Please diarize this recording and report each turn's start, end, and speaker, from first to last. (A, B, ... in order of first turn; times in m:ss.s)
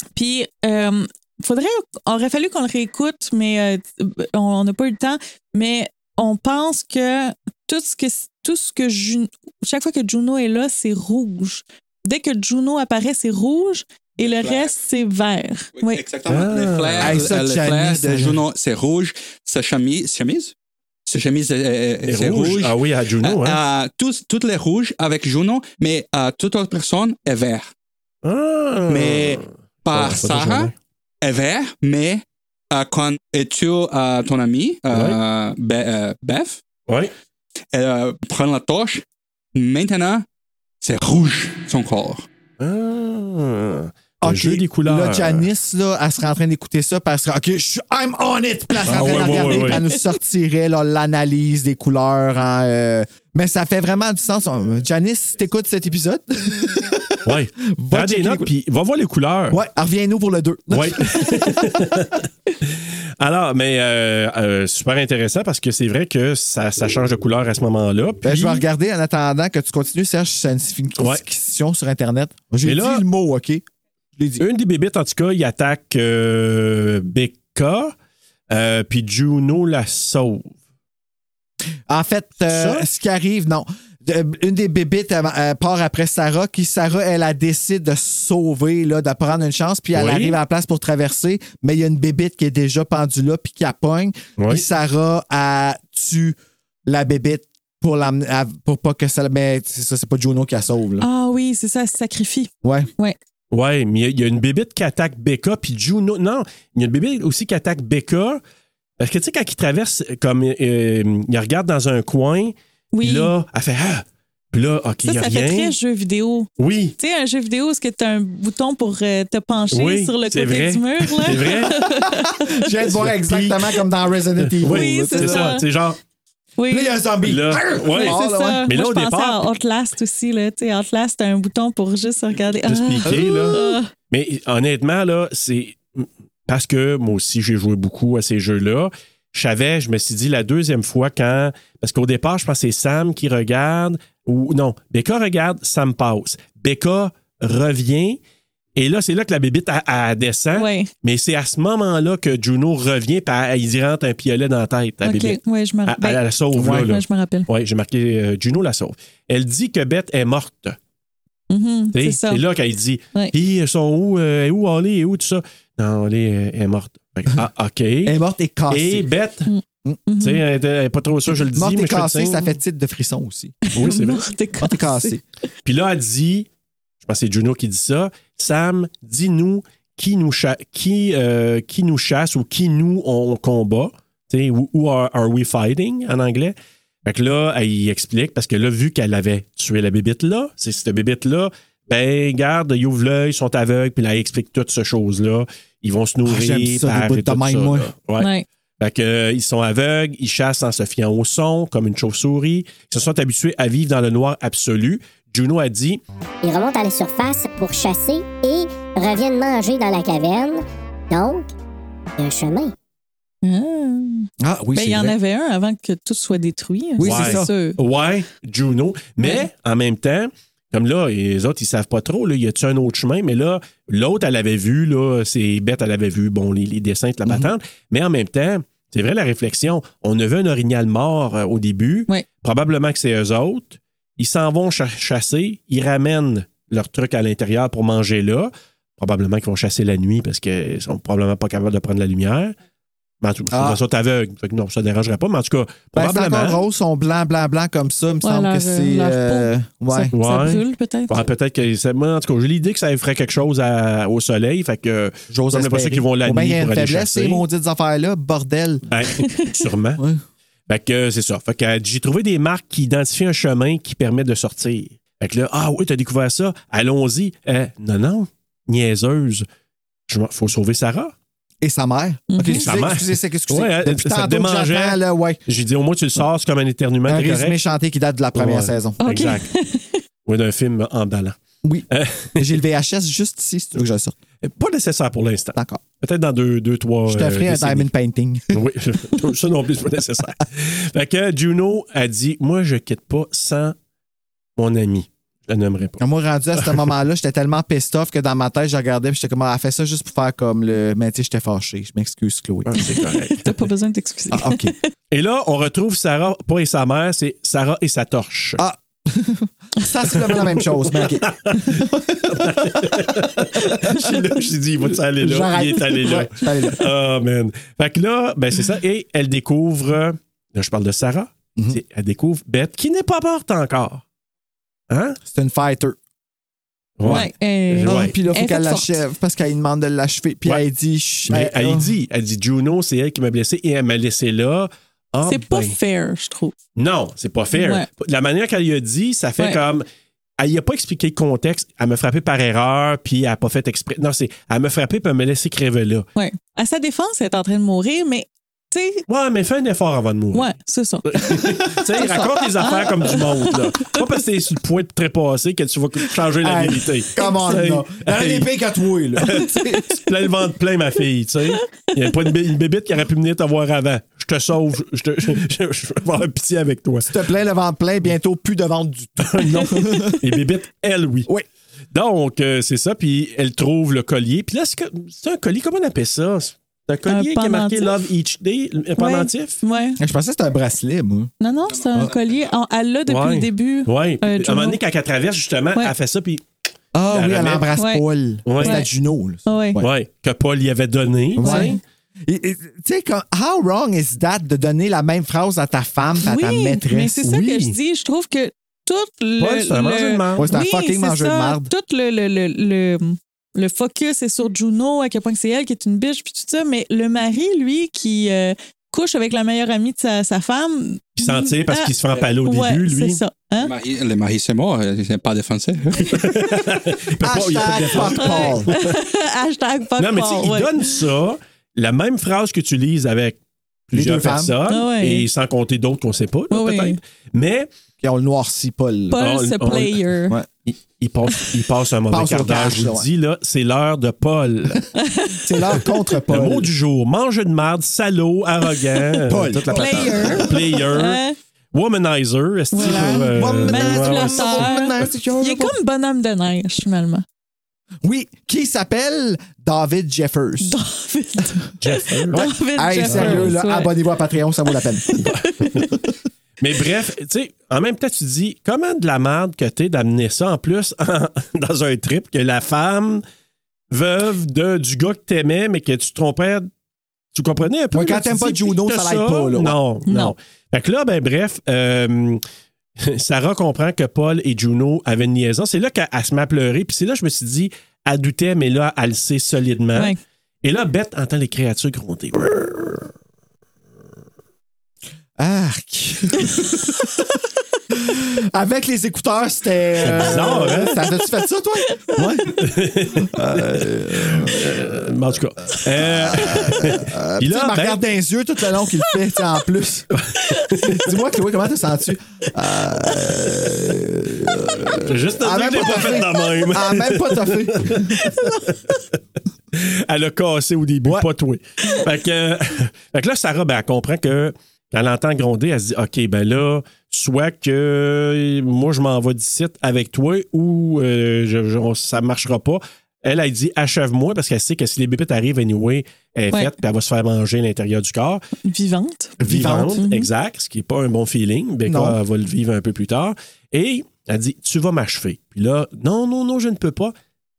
0:00.2-0:16.0 A
0:14.2-0:14.7 B
0:15.8-0:20.5 B
0:16.3-0:17.3 C
0:17.0-0:18.4 D
0:21.1-0:27.7 B
0:22.1-0:23.6 C
0:28.2-0:30.8 C
0:28.9-0:32.2 B
0:32.7-0:36.6 B
0:34.9-0:35.2 C
0:37.7-0:39.0 B
0:39.6-0:40.2 B
0:40.8-0:42.3 B
0:42.6-0:45.5 C
0:44.2-0:57.2 D
0:48.9-0:49.8 C
0:49.0-0:49.5 B
0:57.2-0:59.6 C
0:57.7-0:58.5 D
0:59.5-1:02.0 D
1:00.7-1:08.6 C
1:08.2-1:13.6 D
1:12.6-1:13.0 C
1:14.2-1:14.4 D
1:14.4-1:18.0 C
1:18.5-1:20.6 C
1:21.9-1:41.1 D
1:22.4-1:22.9 C
1:30.0-1:30.4 C
1:34.4-1:34.6 C
1:41.0-1:43.2 A
1:42.6-1:42.9 D
1:43.5-1:48.4 C
1:49.0-1:55.8 C
1:52.9-1:53.3 A
1:55.0-2:02.7 A
1:56.6-1:57.0 C
1:59.7-2:01.8 C
2:01.8-2:05.6 D
2:02.9-2:03.6 C
2:04.4-2:06.0 C
2:04.6-2:05.6 A
2:06.6-2:07.0 A
2:06.7-2:08.7 D
2:07.3-2:09.5 C
2:07.9-2:13.9 A
2:12.7-2:13.6 C
2:13.0-2:13.8 D
2:14.1-2:28.2 C
2:28.8-2:40.8 C
2:30.6-2:30.9 A
2:35.0-2:37.5 A
2:36.6-2:36.9 D
2:41.5-2:42.4 A
2:41.9-2:48.2 C
2:48.1-2:49.1 D
2:48.7-2:49.5 C
2:49.5-2:50.4 A
2:50.2-2:52.5 C
2:51.5-2:53.6 D
2:53.7-2:55.2 A
2:53.7-2:54.3 C
2:54.6-2:55.2 D
2:55.6-2:56.5 C
2:57.0-3:06.6 C
3:07.1-3:26.0 C
3:16.2-3:17.9 D
3:18.2-3:18.5 A
3:26.4-3:31.5 E
3:32.2-3:32.7 E
3:33.4-3:37.8 A
3:34.4-3:35.2 D
3:37.0-3:37.5 D
3:37.0-4:02.6 C
3:39.2-3:39.5 A
4:03.2-4:06.6 C
4:03.5-4:03.8 D
4:05.9-4:10.1 D
4:08.2-4:11.1 A
4:10.1-4:17.4 C
4:15.3-4:18.8 D
4:18.9-4:20.0 C
4:20.7-4:29.4 C
4:30.1-4:31.1 C
4:31.6-4:35.4 D
4:32.3-4:32.6 A
4:32.6-4:37.6 C
4:37.1-4:39.0 D
4:38.3-4:39.5 C
4:39.0-4:40.0 A
4:40.2-4:41.4 C
4:41.6-4:44.2 D
4:41.9-4:42.6 C
4:44.4-4:47.9 C
4:45.6-4:45.8 D
4:47.1-4:48.6 D
4:48.5-4:53.8 C
4:54.6-4:56.0 C
4:56.0-5:03.0 D
4:56.6-4:56.9 C
5:02.7-5:03.5 C
5:03.0-5:04.9 A
5:04.3-5:04.7 D
5:05.1-5:08.6 C
5:08.6-5:14.2 D
5:10.2-5:24.0 C
5:15.1-5:16.8 D
5:24.9-5:25.2 C
5:25.3-5:26.0 D
5:27.0-5:28.1 C
5:27.0-5:27.3 D
5:27.1-5:29.0 A
5:27.8-5:31.9 D
5:31.3-5:35.8 C
5:35.3-5:36.5 A
5:36.8-5:39.8 C
5:37.6-5:37.9 A
5:40.4-5:46.1 C
5:46.2-5:49.0 A
5:49.1-5:50.5 C
5:50.3-5:51.2 A
5:51.1-5:58.5 C
5:51.4-5:53.2 D
5:52.6-5:54.0 A
5:56.4-6:00.0 D
5:59.2-6:07.2 C
6:07.1-6:10.2 D
6:09.2-6:11.3 C
6:11.9-6:19.6 C
6:17.1-6:18.0 A
6:19.0-6:20.0 A
6:20.0-6:21.3 D
6:21.4-6:24.8 A
6:21.7-6:22.4 B
6:23.1-6:26.4 C
6:26.9-6:29.9 D
6:27.1-6:27.7 C
6:27.8-6:28.0 A
6:28.5-6:28.8 C
6:28.6-6:28.9 A
6:29.5-6:29.8 A
6:29.8-6:31.8 C
6:31.4-6:37.2 D
6:31.4-6:31.8 A
6:36.2-6:53.7 A
6:37.2-6:37.8 C
6:39.4-6:40.5 C
6:40.4-6:41.7 D
6:51.2-6:53.2 C
6:53.6-6:56.2 B
6:56.1-6:58.9 C
6:57.2-6:58.7 D
6:58.1-7:00.9 A
7:00.0-7:03.4 C
7:03.9-7:04.6 D
7:03.9-7:07.7 C
7:04.7-7:05.3 A
7:06.5-7:07.0 A
7:08.0-7:09.2 D
7:09.1-7:10.4 A
7:09.2-7:10.0 C
7:10.7-7:14.8 C
7:12.1-7:13.1 D
7:15.0-7:15.8 A
7:15.4-7:16.7 D
7:16.3-7:21.2 C
7:19.2-7:20.7 D
7:19.7-7:21.4 A
7:21.7-7:24.7 C
7:22.7-7:27.2 A
7:22.8-7:25.8 D
7:28.0-7:30.8 D
7:30.6-7:34.0 A
7:31.8-7:32.5 C
7:32.3-7:35.2 D
7:33.0-7:33.6 C
7:34.7-7:36.0 A
7:35.2-7:35.9 C
7:36.6-7:43.2 C
7:43.9-7:46.7 C
7:47.3-7:52.4 C
7:47.9-7:49.8 D
7:50.1-7:50.3 A
7:53.0-8:02.7 C
8:05.4-8:07.2 D
8:07.9-8:12.6 D
8:10.0-8:11.0 C
8:12.5-8:18.0 C
8:13.2-8:15.1 D
8:15.8-8:20.1 D
8:20.1-8:21.1 C
8:20.8-8:28.4 D
8:25.0-8:29.0 C
8:29.7-8:48.4 C
8:48.6-8:49.4 A
8:49.4-8:50.0 D
8:49.4-8:57.1 C
8:50.0-8:50.3 A
8:51.9-8:52.2 D